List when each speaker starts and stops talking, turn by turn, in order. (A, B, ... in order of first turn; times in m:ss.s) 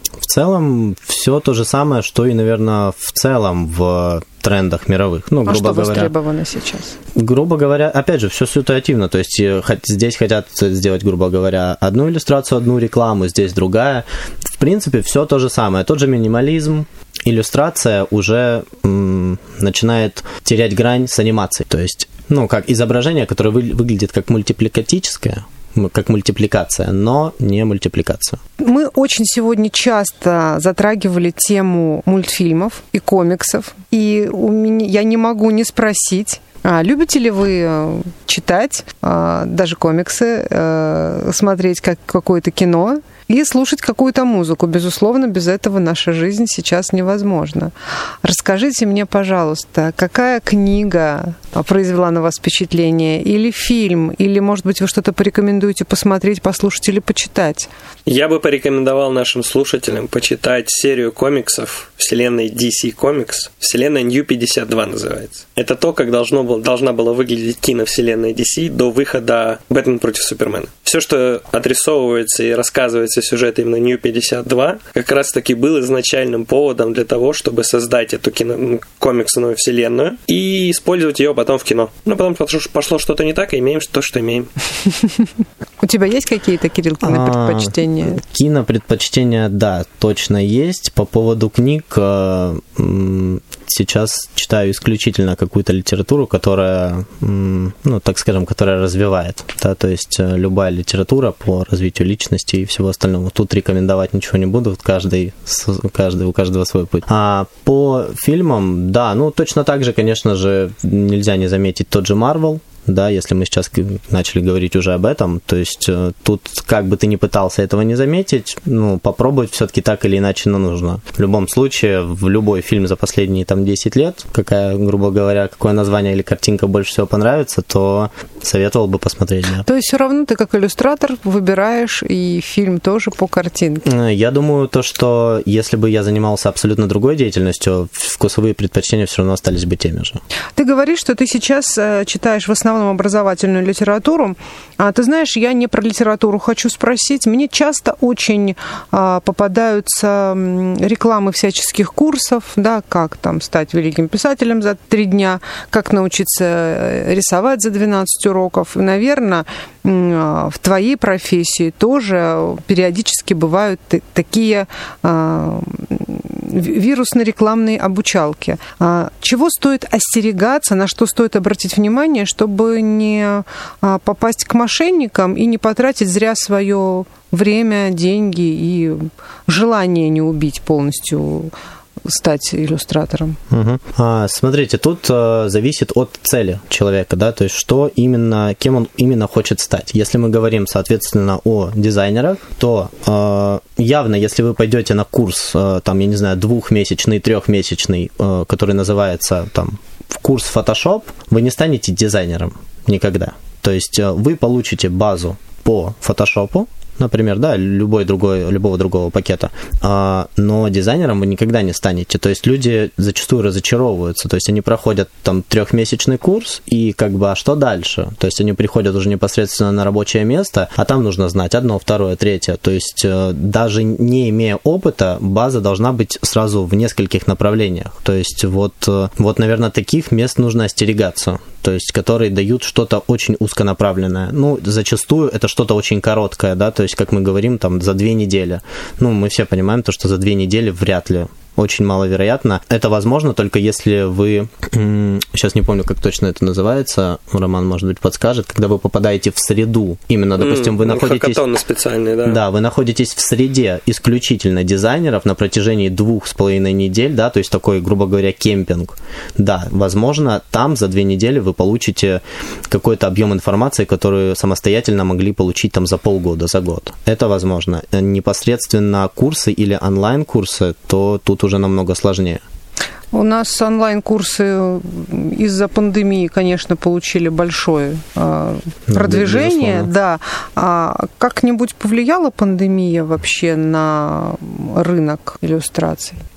0:00.2-0:06.1 A
0:05.4-0:07.0 B
0:07.1-0:28.4 A
0:28.6-0:47.7 B
0:48.2-0:57.7 B
0:58.0-1:24.5 C
1:25.8-1:28.2 B
1:27.0-2:09.6 A
2:09.6-2:13.8 B
2:13.8-2:20.2 A
2:20.6-3:01.5 B
3:02.0-3:03.4 B
3:03.5-4:11.4 A
4:10.4-4:12.4 C
4:12.2-4:32.4 A
4:33.1-4:46.2 B
4:38.9-4:39.9 A